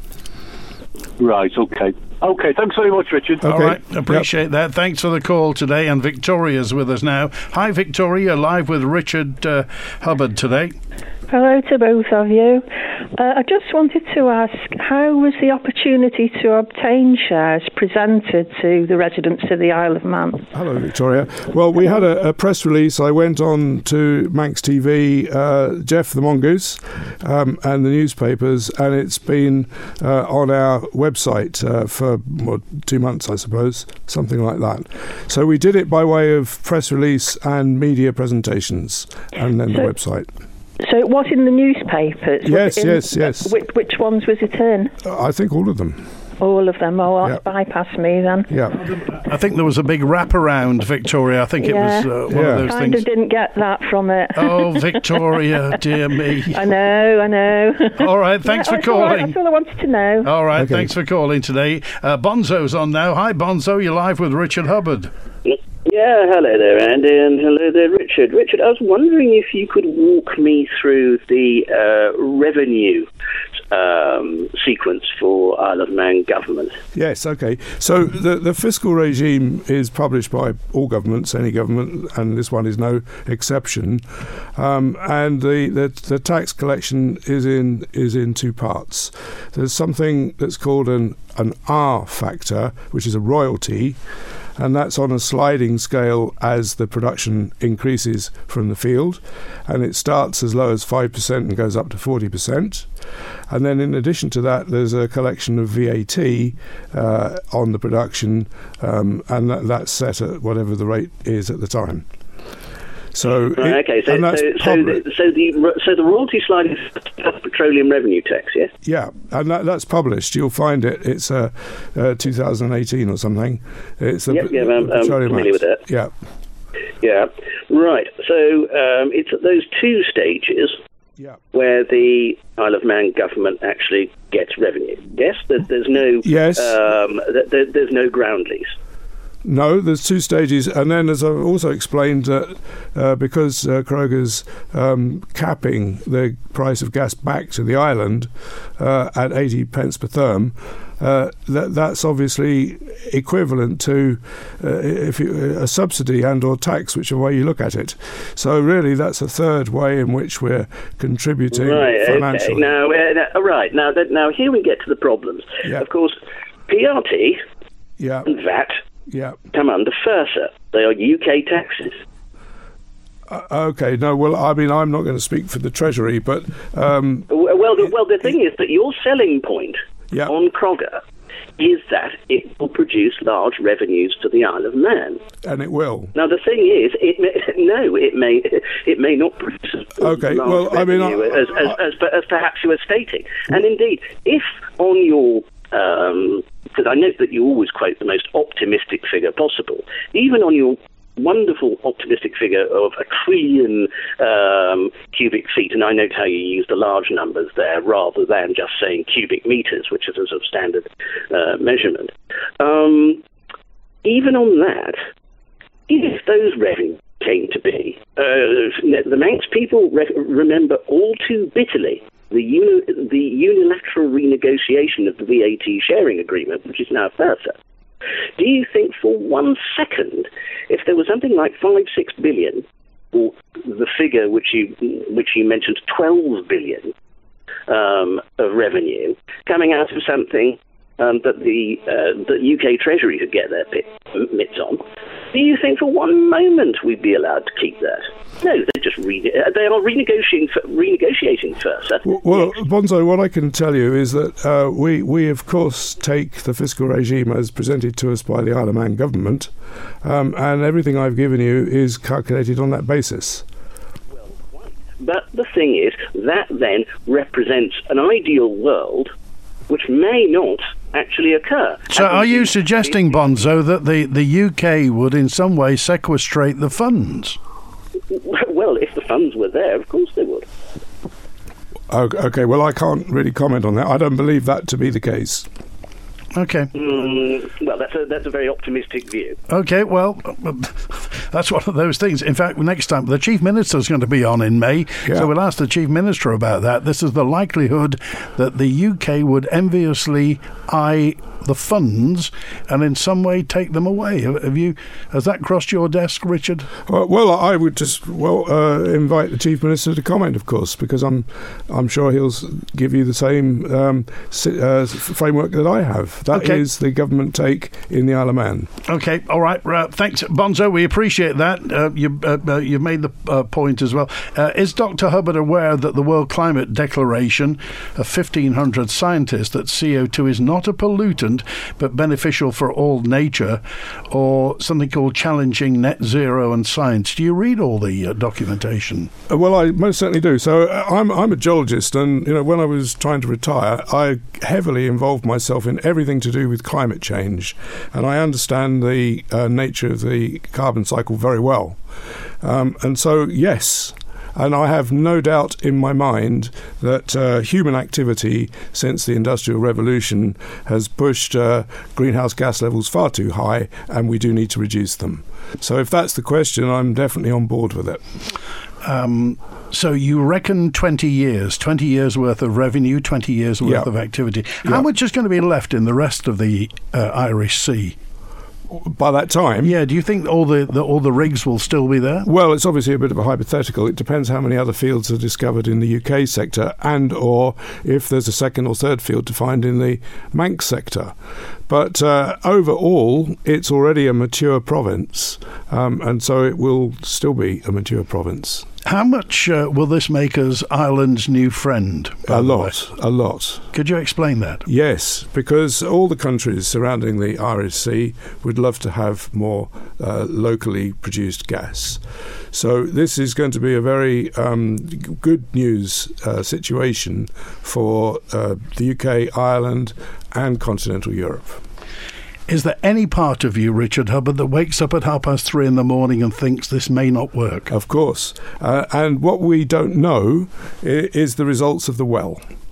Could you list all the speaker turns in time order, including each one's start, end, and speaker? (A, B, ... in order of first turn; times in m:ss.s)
0:01.2-0:03.4 A
0:03.4-0:04.3 B
0:03.4-0:10.8 C
0:11.3-0:12.7 D
0:13.2-0:20.4 D
0:20.5-0:40.3 B
0:40.8-0:44.9 D
0:42.4-0:43.6 B
0:45.0-0:46.1 B
0:46.4-0:48.5 D
0:48.5-0:48.8 B
0:48.7-0:53.1 C
0:51.6-0:55.5 D
0:52.3-0:52.7 B
0:54.4-0:56.7 C
0:56.5-1:00.3 D
0:58.0-0:59.4 C
1:00.2-1:05.1 C
1:00.6-1:00.9 B
1:05.5-1:13.1 E
1:13.7-1:16.8 E
1:16.9-1:34.0 B
1:34.6-1:42.9 B
1:43.5-1:52.1 B
1:53.1-1:55.0 B
1:53.3-1:58.7 E
1:58.8-2:06.1 B
2:04.3-2:05.8 E
2:07.0-2:10.8 E
2:11.5-2:18.7 E
2:16.2-2:16.8 B
2:19.4-2:42.7 B
2:41.5-2:46.2 E
2:46.7-2:47.4 E
2:48.0-2:48.4 B
2:48.3-2:48.8 E
2:49.1-2:49.4 B
2:49.5-2:52.0 E
2:53.3-2:57.3 B
2:57.3-3:01.0 E
3:01.6-3:05.2 E
3:05.4-3:06.1 B
3:06.2-3:33.2 E
3:10.0-3:11.8 B
3:34.0-3:35.0 E
3:35.9-3:47.6 E
3:48.4-3:56.9 E
3:57.7-4:12.5 E
4:12.0-4:19.5 B
4:20.0-4:23.4 B
4:24.1-4:29.1 E
4:29.7-4:33.3 E
4:31.9-4:37.4 C
4:38.1-4:40.5 E
4:41.9-4:45.5 B
4:46.3-4:46.7 C
4:46.7-4:49.4 E
4:49.5-5:06.7 C
5:06.9-5:18.7 B
5:16.3-5:16.6 C
5:18.9-5:39.1 C
5:39.3-5:51.8 B
5:52.4-6:08.0 B
6:08.8-6:18.0 C
6:13.6-6:13.9 B
6:18.7-6:19.7 B
6:19.6-6:22.3 C
6:22.2-6:31.1 B
6:31.7-6:38.7 B
6:38.8-6:42.7 C
6:42.3-6:43.7 B
6:43.7-6:44.6 C
6:44.7-6:52.0 B
6:52.5-7:01.6 B
7:02.5-7:07.7 C
7:07.7-7:12.4 B